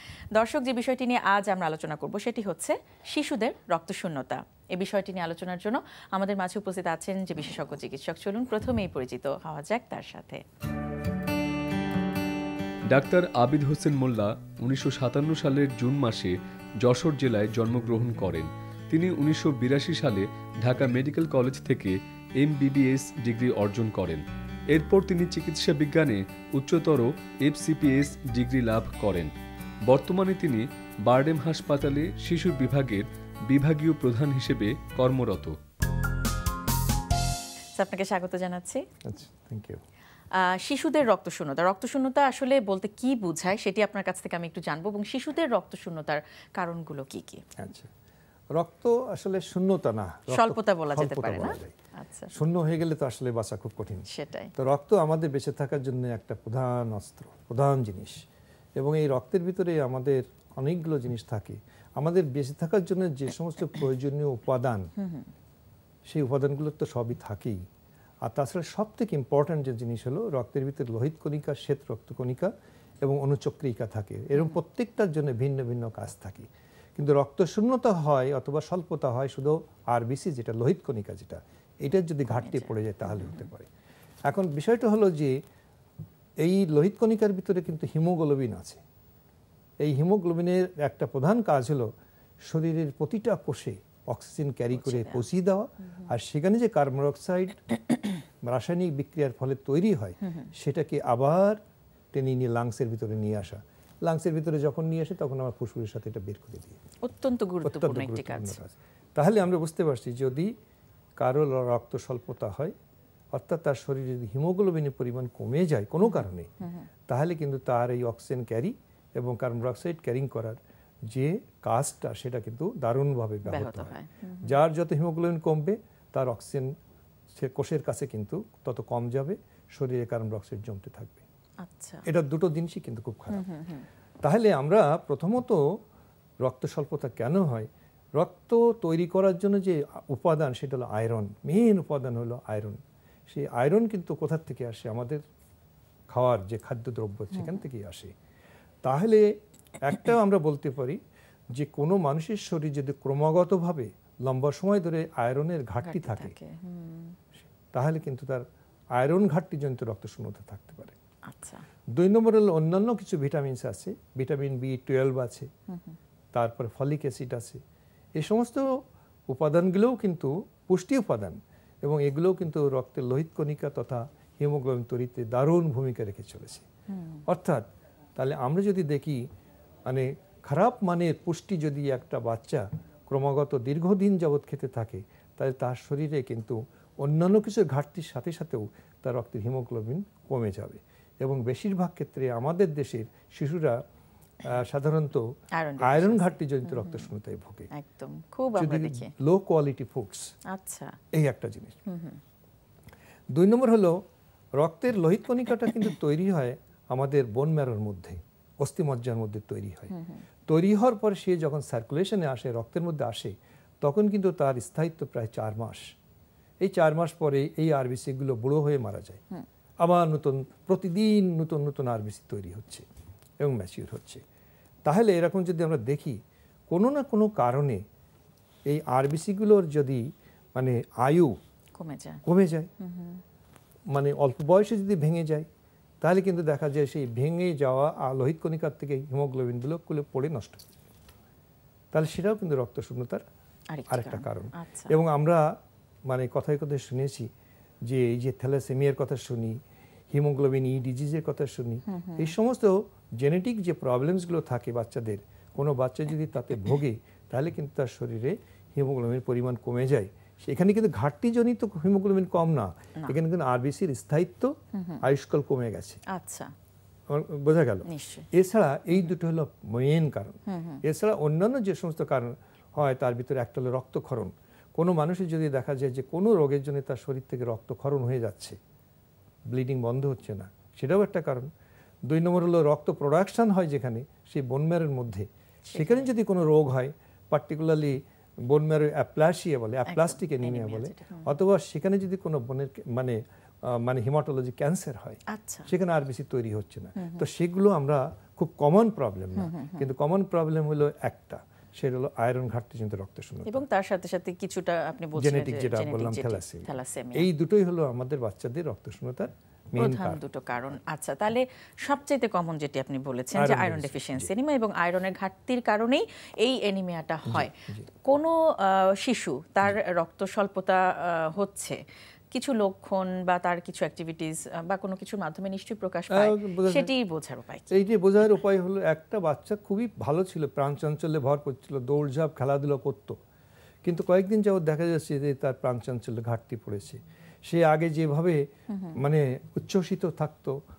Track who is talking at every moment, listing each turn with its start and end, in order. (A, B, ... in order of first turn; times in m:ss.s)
0:00.3-0:10.4 A
0:12.9-0:29.3 B
0:29.8-0:35.6 B
0:37.8-0:38.8 A
0:39.0-0:39.8 C
0:40.3-0:47.4 A
0:47.6-0:47.9 C
0:48.5-0:51.7 C
0:50.3-0:52.4 A
0:52.3-0:58.2 C
0:54.1-0:54.5 A
0:58.8-1:04.9 C
1:05.0-1:05.3 A
1:06.1-1:07.6 C
1:08.2-1:23.7 C
1:22.4-1:23.4 A
1:24.3-1:25.4 C
1:26.4-1:28.8 C
1:29.8-1:31.9 C
1:32.4-1:37.6 C
1:34.7-1:35.2 A
1:38.4-1:41.6 C
1:40.2-1:40.5 A
1:42.1-1:46.8 C
1:47.0-1:48.6 A
1:47.6-1:50.5 C
1:51.2-1:52.7 C
1:53.3-1:56.5 C
1:56.0-1:56.9 A
1:57.1-2:06.7 C
2:03.5-2:04.6 A
2:07.3-2:11.2 C
2:11.6-2:12.0 A
2:12.0-2:13.4 C
2:13.3-2:13.8 A
2:14.2-2:15.6 C
2:16.4-2:25.2 C
2:26.1-2:28.1 C
2:27.3-2:27.6 A
2:28.8-2:31.0 C
2:31.5-2:36.3 C
2:35.8-2:37.2 A
2:37.7-2:38.4 C
2:39.0-2:41.0 C
2:41.2-2:41.6 A
2:41.9-2:45.5 C
2:45.7-2:46.0 A
2:46.3-2:47.6 C
2:48.2-2:48.8 C
2:49.3-2:56.6 C
2:56.9-2:57.2 A
2:57.2-2:57.6 C
2:58.2-2:59.2 C
2:59.9-3:13.8 C
3:14.4-3:15.2 C
3:15.6-3:17.1 A
3:15.8-3:17.7 C
3:17.7-3:19.1 A
3:18.6-3:20.3 C
3:20.5-3:21.0 A
3:21.1-3:21.8 C
3:21.9-3:22.2 A
3:23.3-3:24.0 C
3:24.6-3:29.9 C
3:29.9-3:30.2 A
3:30.5-3:35.9 C
3:36.6-3:39.2 C
3:39.8-3:42.8 C
3:43.4-3:44.2 C
3:44.8-3:47.8 C
3:48.7-3:51.4 C
3:51.8-3:52.2 A
3:52.2-3:52.7 C
3:52.8-3:53.2 A
3:53.9-3:55.5 C
3:56.0-4:00.6 C
4:01.9-4:03.2 C
4:03.7-4:04.9 A
4:03.9-4:07.3 C
4:07.9-4:09.6 C
4:10.1-4:26.0 C
4:11.9-4:12.3 A
4:24.7-4:25.0 A
4:26.1-4:26.5 A
4:27.1-4:38.6 C
4:27.9-4:28.3 A
4:30.5-4:30.8 A
4:39.5-4:41.5 C
4:42.1-5:03.6 C
4:45.7-4:46.1 A
4:49.9-4:51.3 A
4:55.3-4:55.7 A
4:57.0-4:57.2 A
4:59.4-4:59.9 A
5:03.4-5:07.3 A
5:05.2-5:10.2 C
5:09.8-5:17.5 A
5:13.3-5:14.3 C
5:17.3-5:17.9 C
5:18.0-5:21.8 A
5:22.3-5:27.8 A
5:26.1-5:26.9 C
5:27.7-5:33.2 C
5:33.8-5:40.6 C
5:38.7-5:39.0 A